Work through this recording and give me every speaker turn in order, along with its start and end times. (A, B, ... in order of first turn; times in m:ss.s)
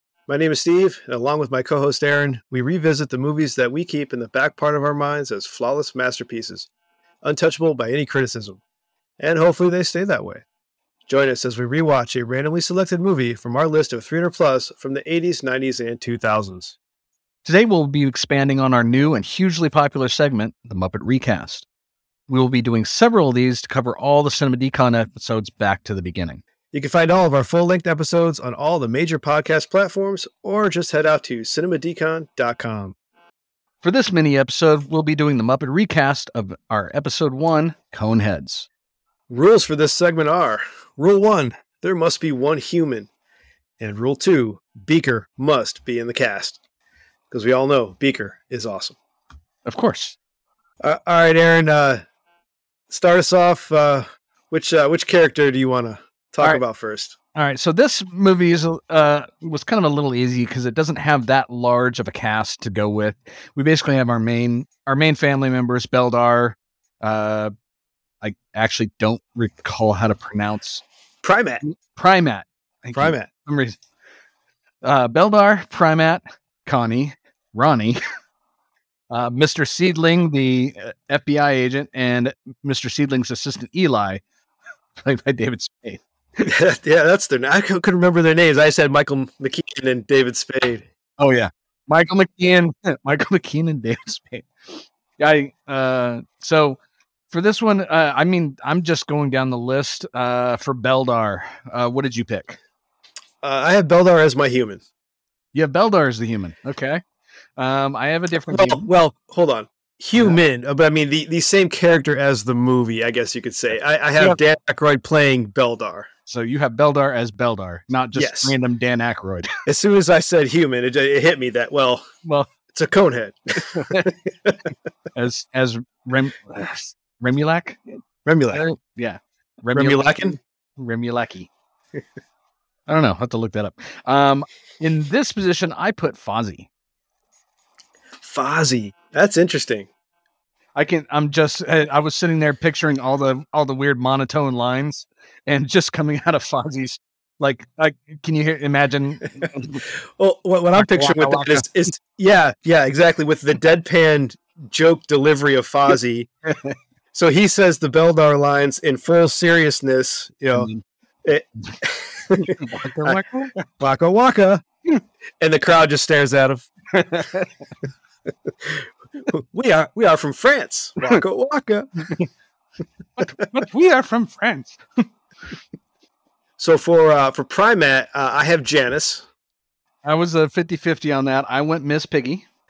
0:00.3-0:06.7 A
0:07.2-0:08.6 A
0:09.2-0:10.4 A
0:11.1-0:16.8 A
0:17.4-0:21.6 B
0:22.3-0:26.4 B
0:26.7-0:33.0 A
0:33.8-0:38.7 B
0:39.3-0:43.1 A
0:43.8-0:46.6 A
0:47.3-0:49.0 A
0:49.6-0:50.2 B
0:50.8-0:52.0 A
0:52.9-0:57.2 A
0:57.3-1:07.5 B
1:08.2-1:10.8 B
1:11.2-1:11.6 A
1:11.6-1:13.8 B
1:12.9-1:13.3 A
1:14.8-1:18.0 B
1:19.1-1:24.2 B
1:25.0-1:26.0 B
1:26.4-1:30.8 A
1:31.2-1:34.5 B
1:35.2-1:42.6 B
1:43.4-1:44.8 A
1:45.5-1:47.0 B
1:47.6-1:48.8 B
1:48.5-1:56.1 A
1:50.1-1:50.4 B
1:56.2-1:59.5 B
1:58.1-1:58.6 A
1:59.6-2:02.0 A
2:02.7-2:04.6 A
2:03.7-2:04.1 B
2:05.1-2:07.8 B
2:08.2-2:08.6 A
2:08.5-2:11.5 B
2:09.7-2:10.4 A
2:12.9-2:16.7 B
2:18.2-2:19.9 A
2:20.7-2:29.8 B
2:30.2-2:36.3 A
2:30.7-2:31.7 B
2:37.1-2:40.7 A
2:40.5-2:40.8 B
2:41.2-2:43.2 A
2:42.5-2:43.5 B
2:43.7-2:44.6 A
2:45.4-2:47.2 A
2:47.0-2:47.5 B
2:49.3-2:52.1 A
2:53.2-2:54.8 B
2:56.6-2:59.2 A
3:00.0-3:02.4 B